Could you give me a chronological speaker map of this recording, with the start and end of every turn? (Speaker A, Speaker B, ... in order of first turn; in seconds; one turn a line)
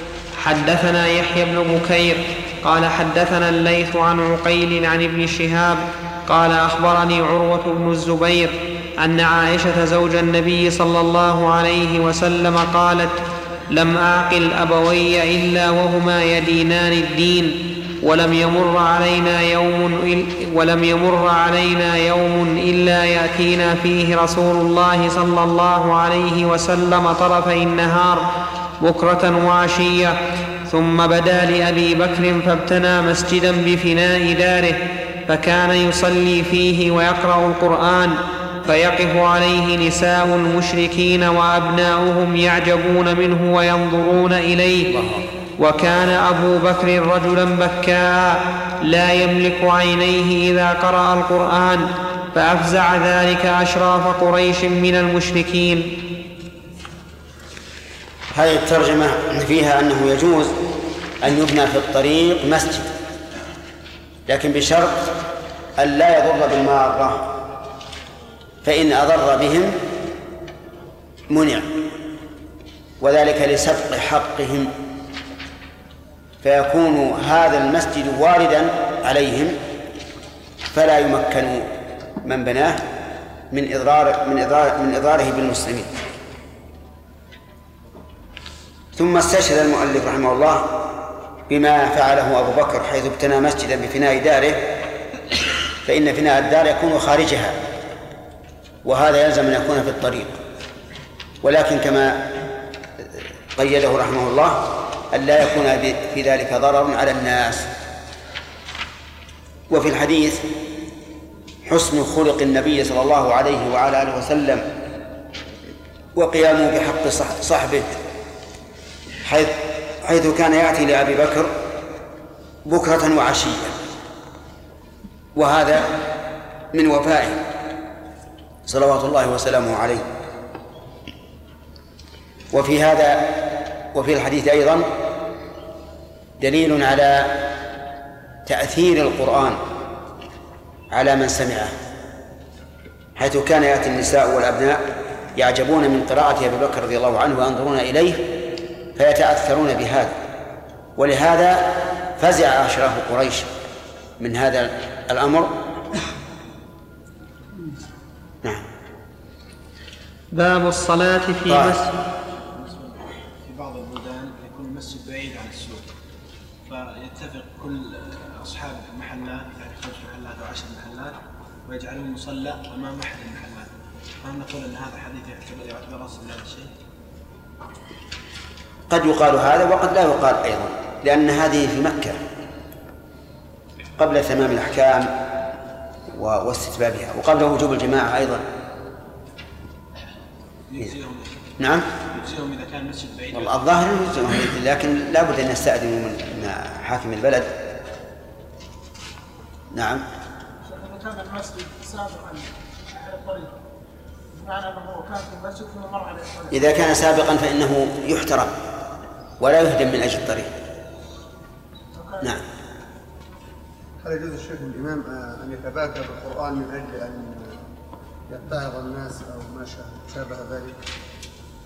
Speaker A: 0.4-13.2
Speaker A: 13.7-28.2
Speaker A: 28.8-30.2
Speaker A: 30.7-44.9
Speaker B: 44.9-45.2
Speaker A: 45.6-55.9
Speaker B: 58.3-60.6
Speaker B: 61.2-62.9
Speaker B: 64.3-65.2
Speaker B: 65.8-67.3
Speaker B: 68.6-69.8
Speaker B: 71.3-71.8
Speaker B: 73.0-74.7
Speaker B: 76.4-79.6
Speaker B: 80.7-81.7
Speaker B: 82.2-82.8
Speaker B: 83.5-85.9
Speaker B: 89.0-90.8
Speaker B: 91.5-94.7
Speaker B: 95.8-97.6
Speaker B: 98.8-100.4
Speaker B: 101.4-102.3
Speaker B: 103.5-107.7
Speaker B: 109.7-110.5
Speaker B: 111.7-114.7
Speaker B: 116.2-118.0
Speaker B: 119.2-121.5
Speaker B: 122.7-123.8
Speaker B: 125.3-125.9
Speaker B: 126.7-127.4
Speaker B: 128.7-130.1
Speaker B: 132.5-134.9
Speaker B: 136.4-137.5
Speaker B: 138.5-139.6
Speaker B: 140.9-141.8
Speaker B: 143.2-148.3
Speaker B: 149.0-150.2
Speaker B: 151.0-153.5
Speaker B: 154.2-155.6
Speaker A: 160.3-161.9
Speaker B: 161.5-161.8
Speaker C: 162.4-165.8
Speaker C: 166.7-171.2
Speaker C: 171.7-173.7
Speaker C: 174.2-176.7
Speaker B: 178.9-182.2
Speaker B: 184.0-185.2
Speaker B: 186.1-188.4
Speaker C: 190.7-191.5
Speaker B: 191.6-191.9
Speaker C: 192.1-193.6
Speaker B: 193.3-197.6
Speaker B: 199.7-200.1
Speaker D: 200.6-203.5
Speaker D: 204.3-207.0
Speaker B: 206.5-208.6
Speaker B: 209.4-210.5
Speaker D: 211.9-212.4
Speaker E: 214.0-217.6
Speaker E: 218.3-220.8